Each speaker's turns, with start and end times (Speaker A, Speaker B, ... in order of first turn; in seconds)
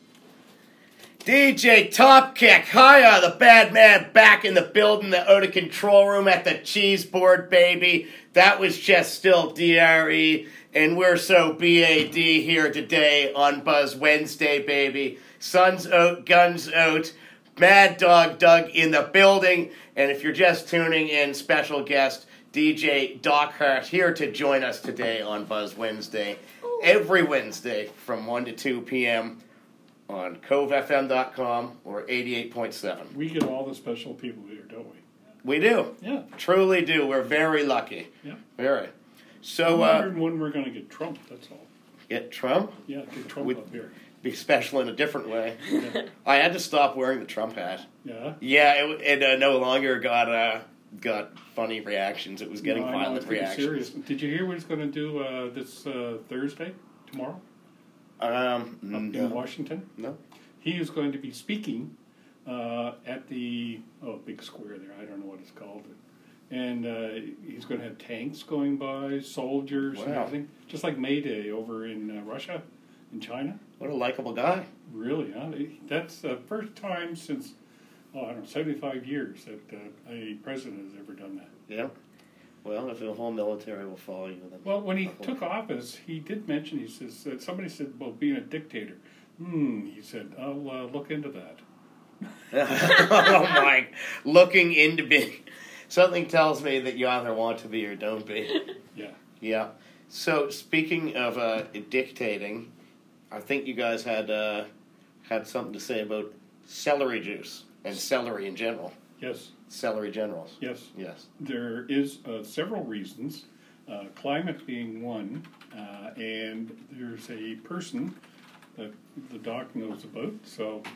Speaker A: 1.2-29.4, 30.1-33.1, 35.4-40.1, 42.1-42.8, 43.4-43.6, 44.2-47.9, 48.4-53.9, 58.2-59.4, 69.9-70.3, 73.8-74.7, 82.6-85.4, 92.5-98.6, 99.4-102.7, 103.3-104.7, 105.2-108.9, 109.7-111.3
Speaker B: 33.1-35.0, 36.0-36.3, 39.6-41.7, 42.9-44.0, 45.6-46.0, 48.0-48.4, 52.6-57.4, 58.9-59.9, 60.6-61.9, 62.4-66.0, 66.5-73.6, 74.9-77.5, 78.1-81.5, 84.6-91.6, 109.2-109.5, 110.6-118.1, 118.8-120.8